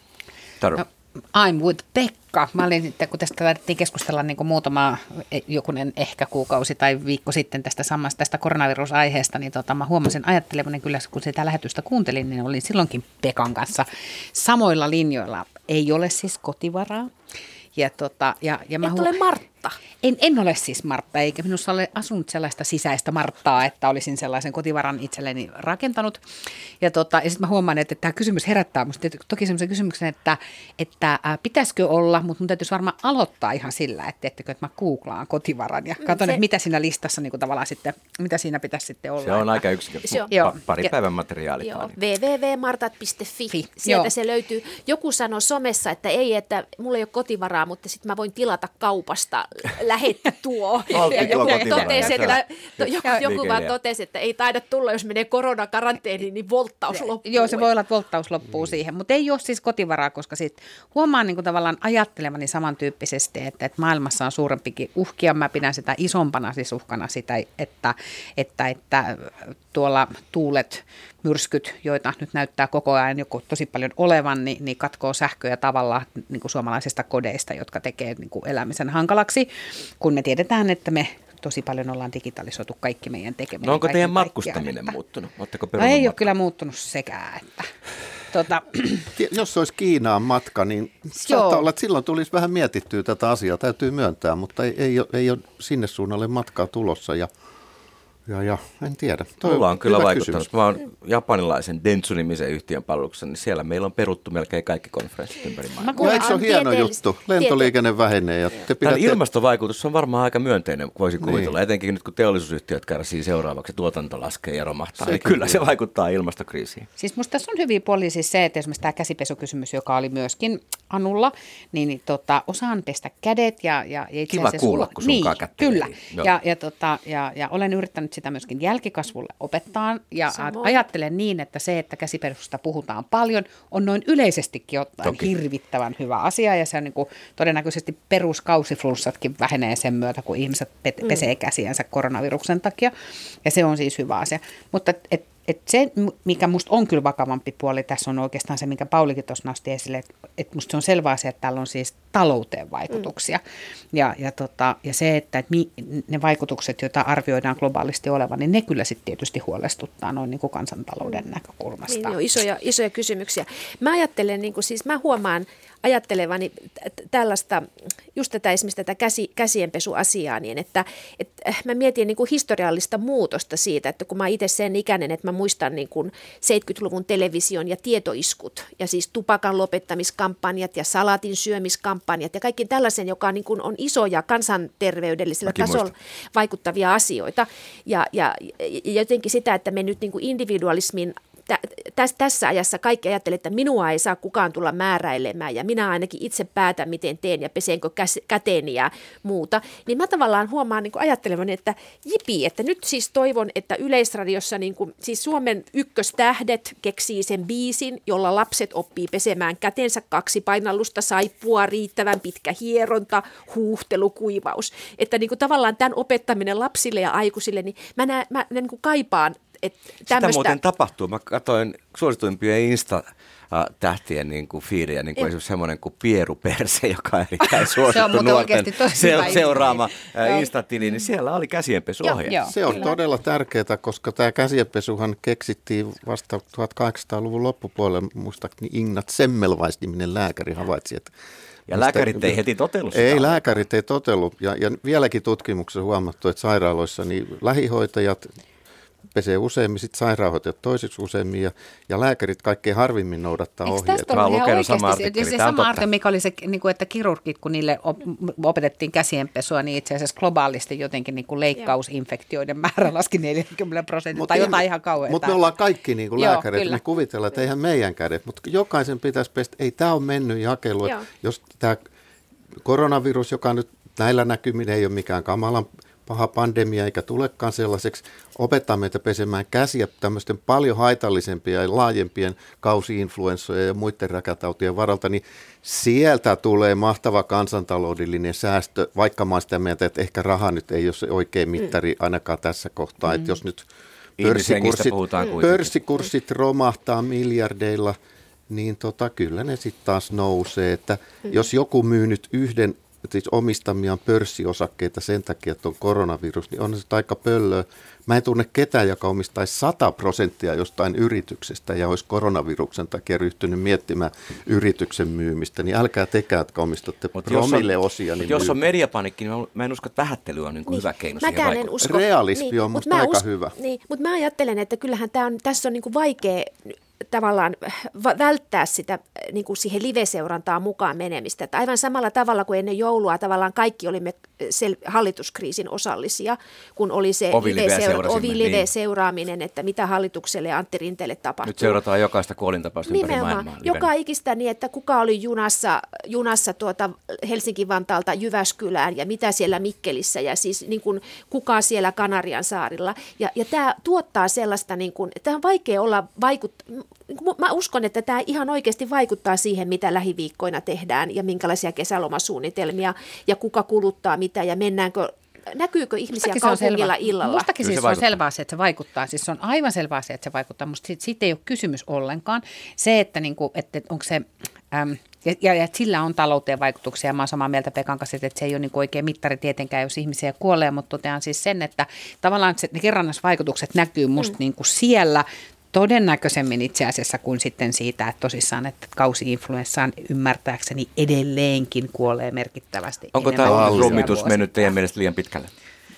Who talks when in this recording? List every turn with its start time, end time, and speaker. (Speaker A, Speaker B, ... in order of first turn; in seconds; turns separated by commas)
Speaker A: 0.8-17.1, Speaker A: 17.8-19.2, Speaker B: 18.8-19.8, Speaker A: 20.0-26.2, Speaker A: 26.8-39.6, Speaker B: 36.0-36.4, Speaker C: 39.2-42.0, Speaker B: 40.0-40.3, Speaker A: 40.3-40.9, Speaker B: 41.6-57.6, Speaker A: 43.5-44.1, Speaker C: 50.9-53.7, Speaker A: 51.0-52.4, Speaker A: 56.9-84.9, Speaker C: 83.6-86.3, Speaker A: 85.8-87.7, Speaker A: 88.3-89.1, Speaker D: 89.1-97.3, Speaker A: 91.2-91.7, Speaker D: 98.3-100.5, Speaker C: 99.4-106.2, Speaker A: 105.8-106.2, Speaker B: 105.8-107.7, Speaker D: 106.0-109.2, Speaker C: 108.8-116.9, Speaker D: 111.2-111.5, Speaker D: 115.0-115.6, Speaker A: 117.0-142.9, Speaker C: 124.3-126.3, Speaker B: 130.3-130.8, Speaker C: 135.0-135.3, Speaker A: 143.4-153.4, Speaker A: 153.9-162.2, Speaker B: 161.9-220.6, Speaker C: 185.4-185.9, Speaker C: 220.1-232.4, Speaker A: 227.8-230.5, Speaker A: 232.2-232.9, Speaker D: 232.4-241.1, Speaker C: 241.7-243.6, Speaker D: 241.7-242.4, Speaker D: 242.9-248.3, Speaker D: 249.1-254.3, Speaker A: 253.6-265.5, Speaker C: 254.1-255.8, Speaker D: 264.1-271.8, Speaker A: 266.2-266.8, Speaker D: 272.6-293.6, Speaker C: 294.2-295.8, Speaker D: 294.2-298.0, Speaker D: 298.5-318.6, Speaker C: 317.2-321.7, Speaker B: 320.7-341.8, Speaker D: 321.8-323.5, Speaker C: 337.3-338.7, Speaker C: 341.4-343.9, Speaker B: 342.9-367.5, Speaker A: 366.2-394.6, Speaker C: 367.6-368.1, Speaker C: 393.1-395.5, Speaker D: 393.4-394.1